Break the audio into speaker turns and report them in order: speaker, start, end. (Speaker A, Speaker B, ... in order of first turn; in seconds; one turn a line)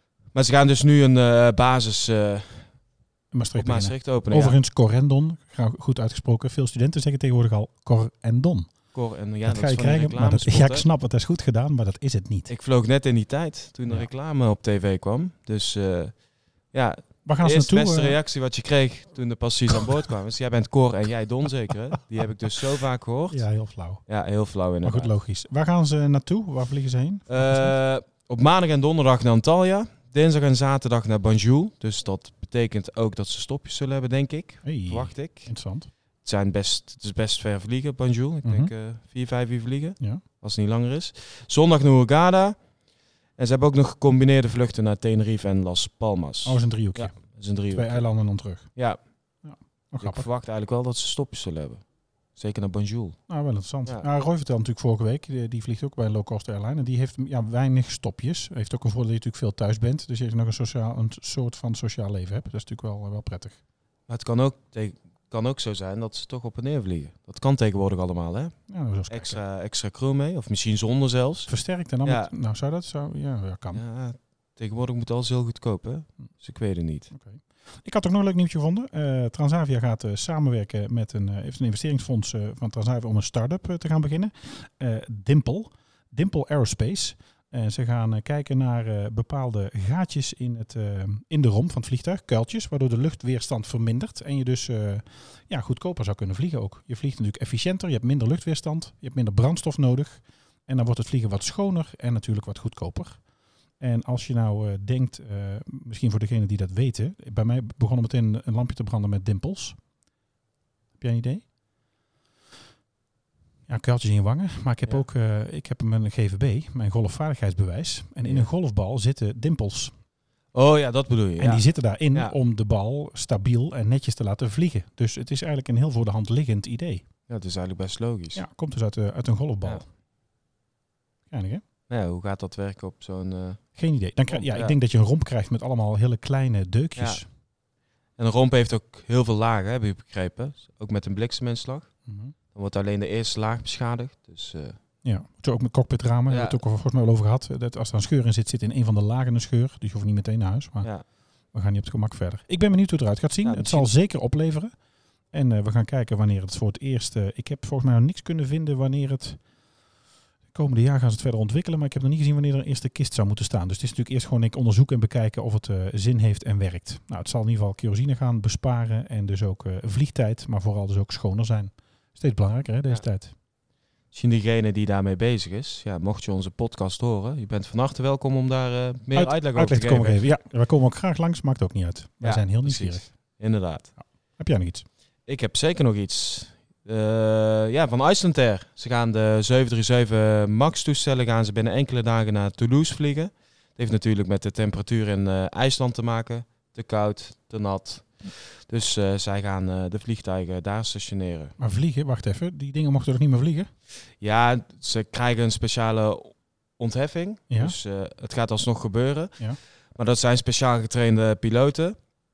Speaker A: 0.3-2.7
Speaker B: 3.3-8.8
Speaker A: 3.6-4.6
Speaker A: 8.9-10.8
Speaker B: 9.4-12.5
Speaker A: 12.5-23.4
Speaker B: 17.2-18.2
Speaker B: 23.3-24.0
Speaker A: 24.1-25.1
Speaker B: 24.8-27.8
Speaker A: 27.3-35.5
Speaker B: 34.6-35.9
Speaker A: 36.2-42.6
Speaker B: 38.4-38.7
Speaker A: 43.4-48.0
Speaker B: 46.4-48.8
Speaker B: 49.4-50.2
Speaker A: 50.0-51.8
Speaker A: 52.3-53.2
Speaker B: 53.3-63.6
Speaker A: 64.1-68.5
Speaker B: 68.7-69.4
Speaker A: 69.1-71.5
Speaker B: 71.5-73.8
Speaker A: 72.0-72.3
Speaker A: 73.7-77.1
Speaker B: 77.1-103.2
Speaker B: 103.8-109.8
Speaker B: 111.0-111.4
Speaker B: 113.7-119.9
Speaker A: 120.5-122.3
Speaker B: 121.4-127.0
Speaker A: 127.3-128.4
Speaker B: 128.3-129.8
Speaker B: 131.3-131.6
Speaker A: 131.9-133.6
Speaker B: 133.8-137.2
Speaker A: 134.3-134.8
Speaker A: 136.9-137.2
Speaker A: 138.2-141.9
Speaker B: 142.1-142.3
Speaker A: 142.5-144.8
Speaker B: 145.0-150.9
Speaker A: 146.3-146.6
Speaker B: 151.5-154.7
Speaker A: 153.4-153.9
Speaker B: 155.3-159.4
Speaker B: 160.5-173.3
Speaker A: 174.1-180.2
Speaker B: 179.1-183.0
Speaker A: 182.2-183.9
Speaker B: 184.0-184.8
Speaker A: 185.3-201.5
Speaker B: 201.6-203.7
Speaker A: 204.2-209.4
Speaker B: 207.5-207.8
Speaker A: 209.9-212.0